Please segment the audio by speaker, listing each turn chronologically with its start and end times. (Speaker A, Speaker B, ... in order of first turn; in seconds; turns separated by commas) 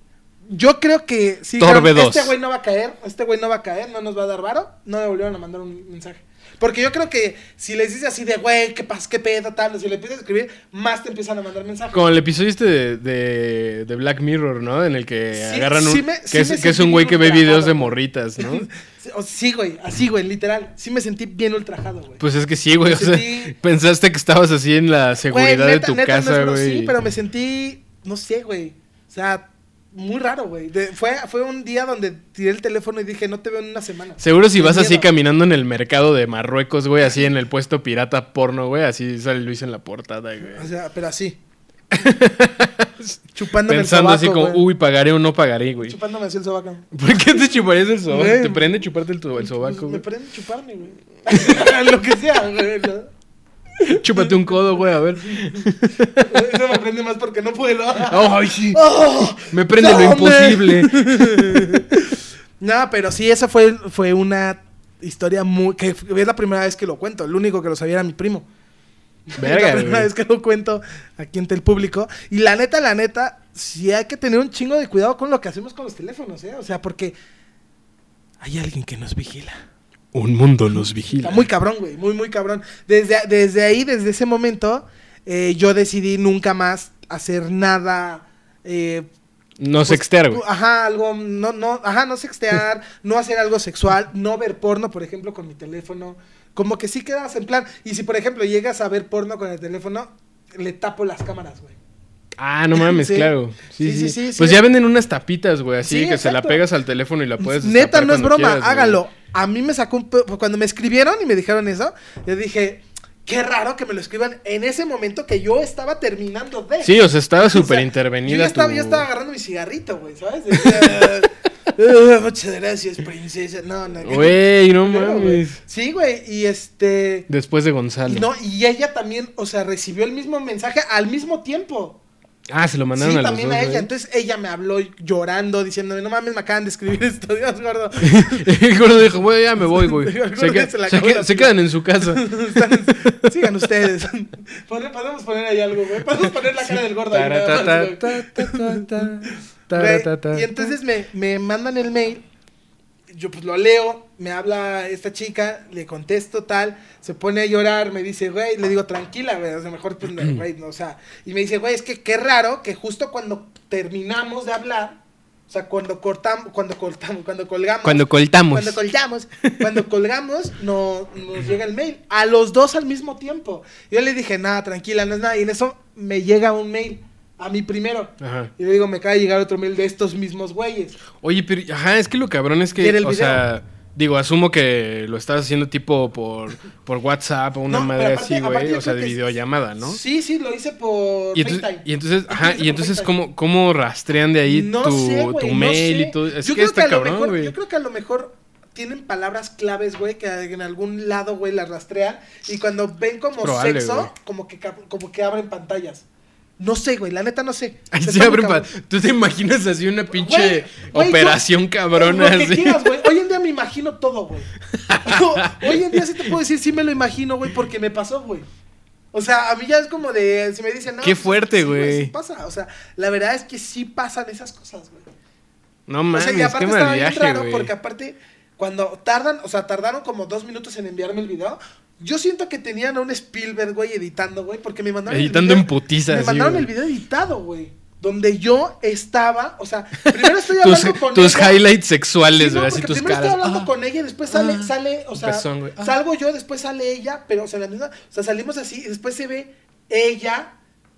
Speaker A: 0.5-12.0, Speaker B: 1.6-2.3, Speaker B: 11.9-18.7, Speaker A: 15.3-22.2, Speaker B: 22.2-26.9, Speaker A: 22.8-23.6, Speaker A: 25.3-35.1, Speaker B: 34.2-40.7, Speaker A: 40.5-41.4, Speaker B: 41.9-46.0, Speaker A: 43.4-44.6, Speaker A: 45.9-46.9, Speaker B: 46.9-50.0, Speaker A: 48.1-48.9, Speaker A: 49.4-53.1, Speaker A: 53.8-54.6, Speaker B: 53.9-56.3, Speaker A: 55.3-55.6, Speaker A: 56.2-68.5, Speaker B: 58.0-61.8, Speaker A: 69.3-77.2, Speaker B: 69.4-70.1, Speaker A: 78.4-79.6, Speaker B: 80.1-81.5, Speaker A: 81.1-89.1, Speaker B: 89.6-90.4, Speaker A: 89.8-101.8, Speaker B: 102.4-109.0, Speaker A: 102.8-104.6, Speaker A: 105.8-106.6, Speaker A: 107.4-127.3, Speaker B: 116.8-119.1, Speaker B: 120.8-121.0, Speaker B: 124.0-125.6, Speaker B: 127.3-128.3, Speaker A: 128.1-132.0, Speaker B: 132.5-133.9, Speaker A: 133.0-138.4, Speaker B: 138.0-143.1, Speaker A: 139.7-149.1, Speaker B: 146.5-150.7, Speaker A: 149.7-152.2, Speaker A: 153.1-165.0, Speaker A: 165.5-181.0, Speaker B: 167.8-168.8, Speaker B: 178.2-178.5, Speaker B: 181.2-190.0, Speaker A: 182.8-183.4, Speaker A: 187.7-189.2, Speaker A: 189.8-193.1, Speaker B: 191.3-197.5, Speaker A: 194.5-206.1, Speaker B: 203.4-204.1, Speaker A: 206.6-208.7, Speaker B: 207.9-213.1, Speaker A: 210.1-211.4, Speaker A: 211.9-218.5, Speaker B: 214.9-215.9, Speaker A: 219.1-225.1, Speaker B: 221.0-222.1, Speaker B: 225.9-227.7, Speaker A: 226.1-241.6, Speaker B: 235.1-236.7, Speaker B: 240.1-243.7, Speaker A: 242.3-250.5, Speaker B: 244.3-245.9